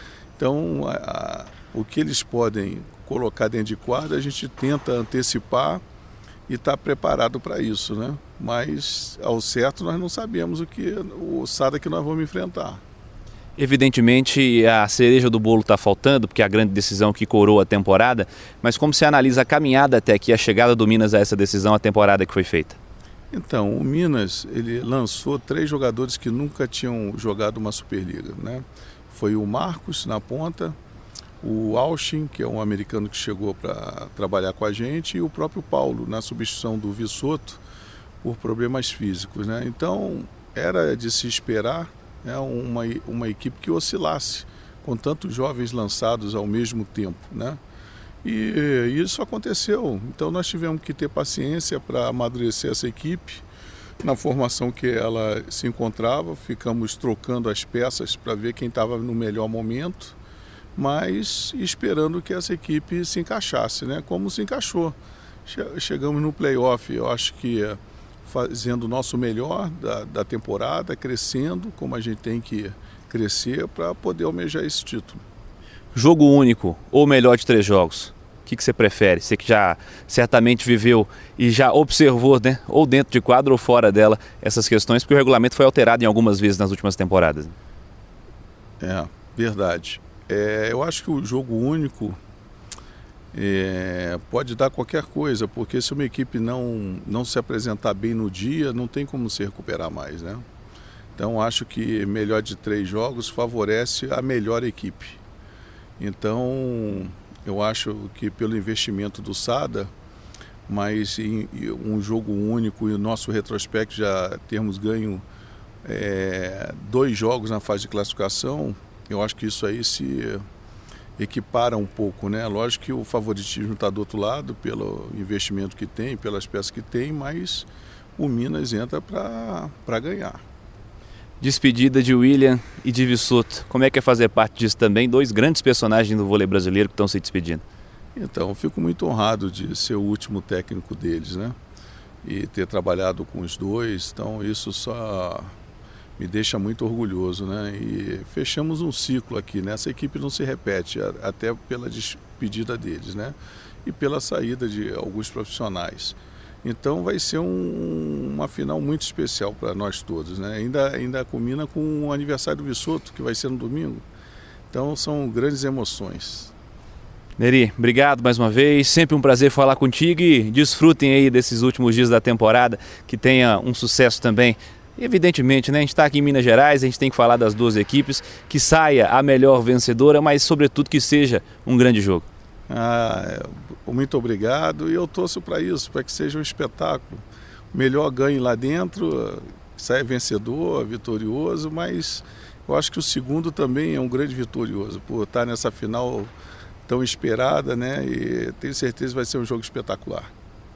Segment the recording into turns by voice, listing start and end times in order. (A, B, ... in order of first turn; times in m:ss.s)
0:00.4-0:05.8 A
0:06.5-0:12.8 A
0:13.6-0:22.8 B
0:23.3-0:30.8 A
0:31.4-0:37.6 A
0:38.2-0:47.6 A
0:48.2-0:53.4 A
0:54.0-1:00.2 A
1:00.8-1:15.2 A
1:15.9-1:27.5 B
1:28.8-1:32.2 A
1:33.3-1:40.4 A
1:41.2-1:45.2 A
1:46.0-1:49.9 A
1:50.7-1:55.2 A
1:55.8-2:00.4 A
2:01.2-2:10.4 A
2:11.4-2:17.6 B
2:18.2-2:21.6 A
2:22.2-2:25.5 A
2:26.2-2:44.0 A
2:44.7-2:46.5 A
2:47.4-3:02.3 B
3:02.7-3:16.3 A
3:16.9-3:20.3 A